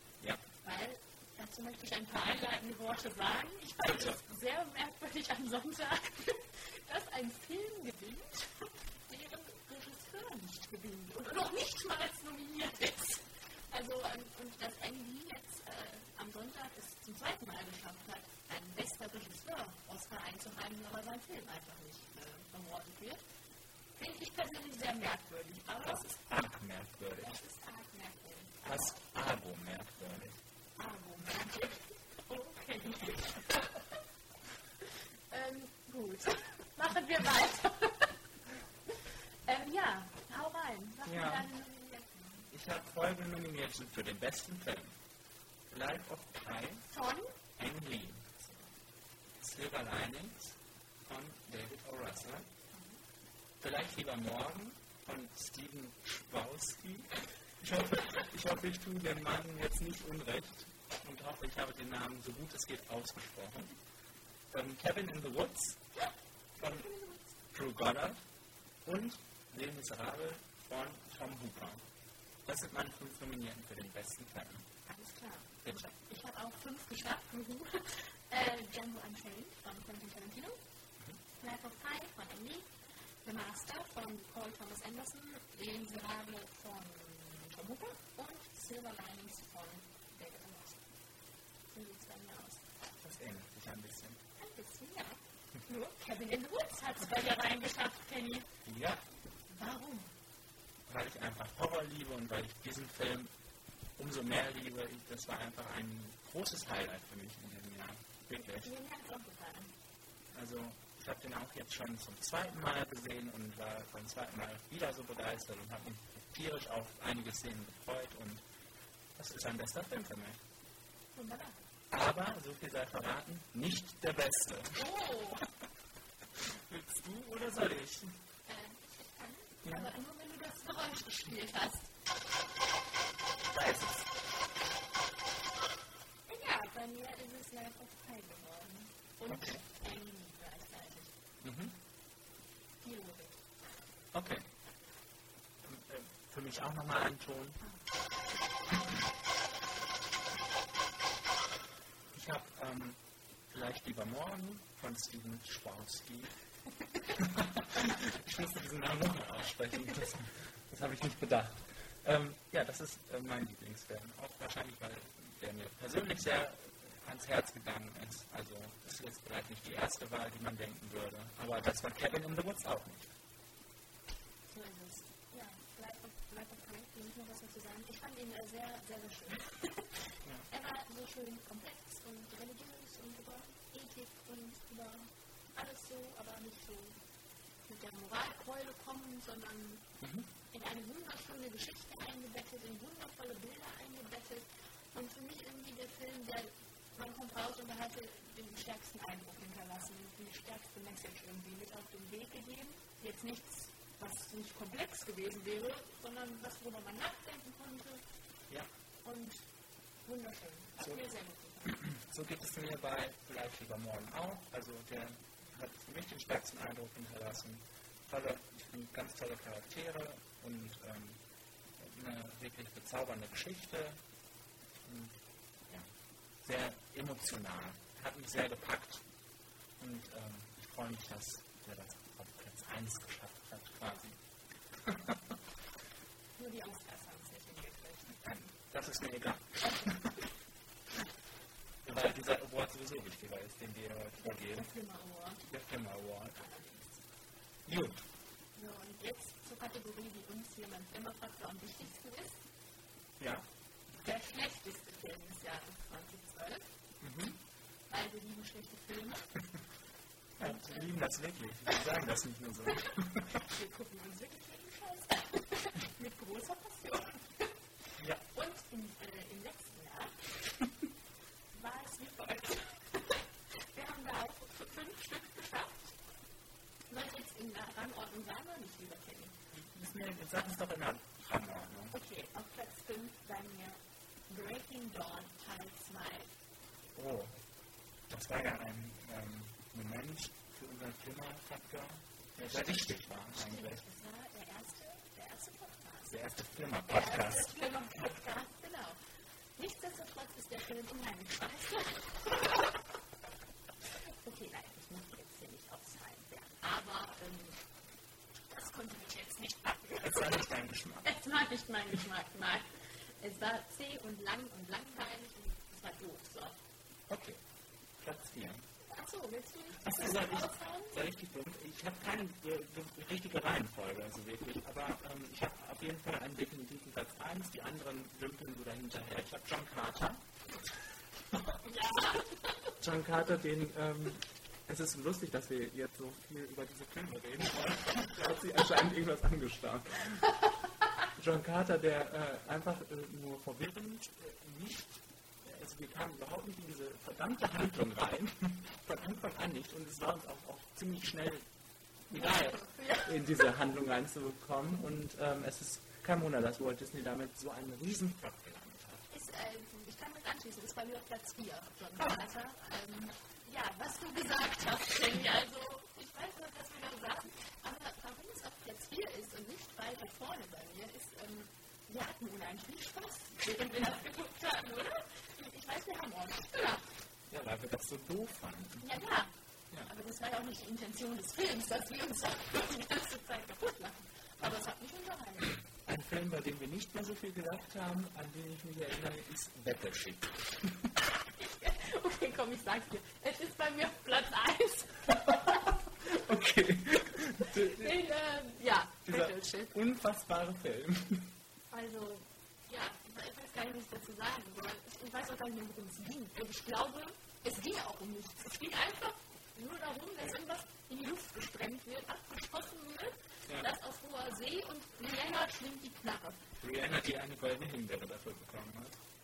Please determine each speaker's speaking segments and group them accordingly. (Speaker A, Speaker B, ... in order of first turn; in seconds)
Speaker A: 0.6-23.2, 23.9-26.2, 27.2-28.6, 30.8-33.8, 35.3-38.1, 39.5-42.5, 46.9-47.4, 52.7-53.0, 66.0-67.3, 74.9-80.6, 81.3-82.7, 83.2-90.8, 91.7-92.6, 94.4-98.5, 99.5-100.1, 108.4-109.7, 121.1-121.6, 124.7-125.5, 128.5-131.9, 136.3-141.1, 142.8-143.4, 174.5-179.9, 180.5-187.0, 187.7-189.8, 190.5-208.0, 209.0-209.4, 210.1-211.8, 236.4-238.3, 244.2-245.4, 246.3-247.1, 248.6-252.4, 254.0-256.7, 257.9-259.3, 260.4-260.9, 263.3-267.5, 268.3-270.1, 271.5-273.2, 273.7-275.9, 276.9-279.4, 281.9-286.3, 293.3-296.1, 296.9-299.0, 299.6-302.8, 304.2-307.6, 308.5-310.4, 311.0-312.6, 313.2-316.6, 318.8-321.0, 331.6-332.5, 352.1-353.5, 359.1-376.8, 378.8-379.3, 379.9-385.6, 391.3-395.7, 397.5-399.7, 401.7-416.4
Speaker B: 3.8-4.2, 26.2-27.4, 28.6-30.4, 41.0-41.5, 42.5-44.9, 45.7-46.9, 47.6-48.4, 49.4-52.5, 53.6-63.8, 64.5-65.8, 66.6-66.8, 67.5-68.2, 68.8-71.8, 72.4-74.7, 93.0-94.2, 98.6-99.0, 100.9-103.3, 104.0-108.7, 110.3-118.4, 119.2-120.4, 121.9-124.8, 126.4-128.2, 129.6-129.9, 133.5-134.1, 139.3-139.6, 141.4-141.8, 144.1-144.4, 145.6-147.6, 152.1-156.3, 157.2-173.1, 190.0-190.3, 211.7-221.2, 221.8-224.0, 224.8-225.2, 226.4-229.0, 229.8-234.2, 234.8-235.3, 238.2-240.1, 241.8-244.7, 245.5-246.4, 247.7-248.0, 253.2-253.4, 257.0-257.4, 260.4-263.3, 268.0-268.2, 279.5-281.9, 286.9-287.4, 288.1-293.8, 296.1-297.5, 310.0-311.1, 317.1-317.4, 318.0-318.7, 319.8-330.3, 332.8-340.3, 341.1-351.5, 352.1-359.1, 377.3-378.9, 385.8-390.9, 395.3-398.0, 399.1-401.3, 416.6-419.0